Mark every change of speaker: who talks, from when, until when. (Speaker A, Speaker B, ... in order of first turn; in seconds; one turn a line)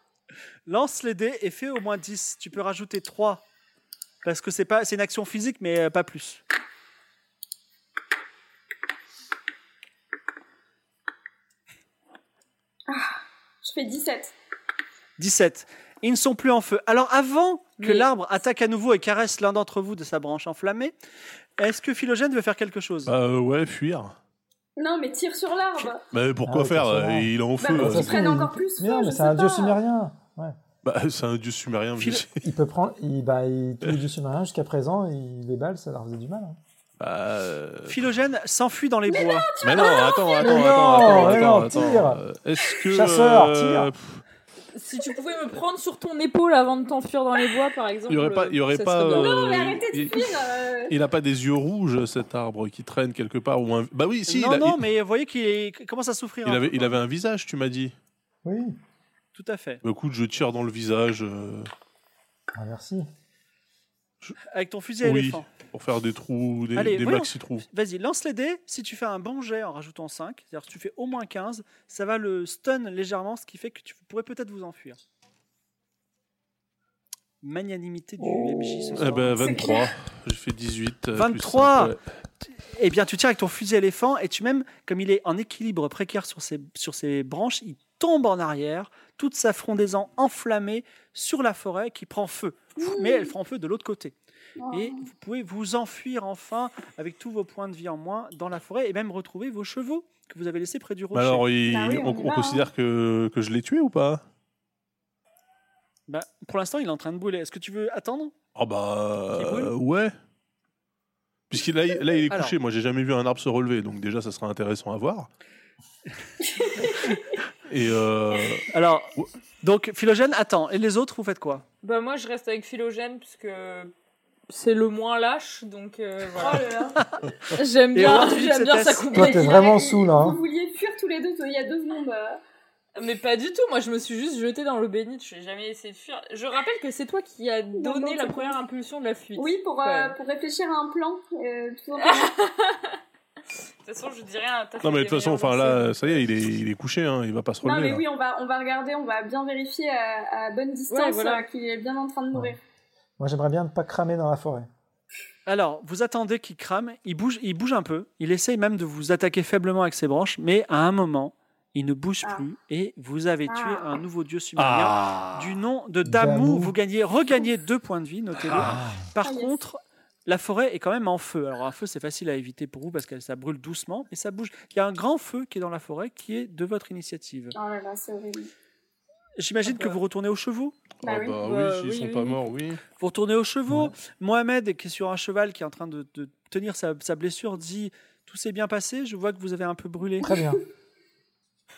Speaker A: 0.7-3.4
Speaker A: 4.2-6.4
Speaker B: 12.9-14.3
Speaker A: 15.2-20.9
Speaker C: 17.8-18.1
Speaker A: 21.6-23.1
Speaker D: 23.1-24.1
Speaker B: 24.8-26.0
Speaker D: 26.1-28.3
Speaker E: 26.4-30.6
Speaker B: 27.6-29.8
Speaker D: 30.8-32.5
Speaker A: 32.0-32.2
Speaker E: 32.4-36.6
Speaker D: 37.0-38.0
Speaker A: 37.9-39.5
Speaker B: 39.1-41.2
Speaker D: 39.6-44.2
Speaker E: 40.4-42.2
Speaker E: 42.9-43.9
Speaker C: 44.7-49.4
Speaker D: 48.1-54.9
Speaker B: 49.2-50.9
Speaker A: 54.3-56.9
Speaker D: 56.4-57.9
Speaker E: 58.4-58.8
Speaker A: 59.3-59.8
Speaker D: 59.8-61.7
Speaker E: 62.5-63.1
Speaker A: 64.5-65.5
Speaker D: 65.0-67.6
Speaker A: 66.8-75.0
Speaker A: 77.4-79.5
Speaker D: 78.9-82.0
Speaker B: 79.4-79.9
Speaker A: 81.2-81.9
Speaker A: 82.6-94.1
Speaker B: 92.8-93.3
Speaker B: 94.6-95.0
Speaker A: 94.7-101.5
Speaker D: 101.1-104.2
Speaker B: 101.6-102.7
Speaker A: 106.1-108.3
Speaker D: 108.5-110.1
Speaker A: 109.3-109.7
Speaker D: 111.5-115.3
Speaker A: 112.3-112.5
Speaker B: 116.5-117.2
Speaker D: 117.7-119.3
Speaker A: 118.7-121.6
Speaker C: 121.8-123.9
Speaker C: 124.5-126.7
Speaker B: 126.4-127.0
Speaker A: 127.0-127.2
Speaker C: 127.5-129.6
Speaker A: 127.9-129.1
Speaker E: 129.1-130.4
Speaker B: 129.1-132.4
Speaker C: 132.9-140.2
Speaker B: 137.8-138.6
Speaker B: 139.3-142.3
Speaker C: 142.0-143.0
Speaker C: 143.8-146.2
Speaker D: 144.8-148.0
Speaker B: 147.6-152.6
Speaker C: 150.9-151.4
Speaker E: 153.2-154.7
Speaker A: 155.4-177.6
Speaker B: 163.5-163.9
Speaker D: 164.6-165.6
Speaker E: 166.0-166.7
Speaker D: 168.4-168.9
Speaker E: 168.6-169.0
Speaker B: 169.2-169.5
Speaker B: 177.5-178.5
Speaker A: 179.4-180.9
Speaker C: 179.7-180.0
Speaker D: 181.0-182.8
Speaker B: 181.0-181.4
Speaker C: 181.4-182.4
Speaker A: 183.0-190.3
Speaker E: 183.7-183.9
Speaker E: 190.2-190.6
Speaker B: 190.2-190.6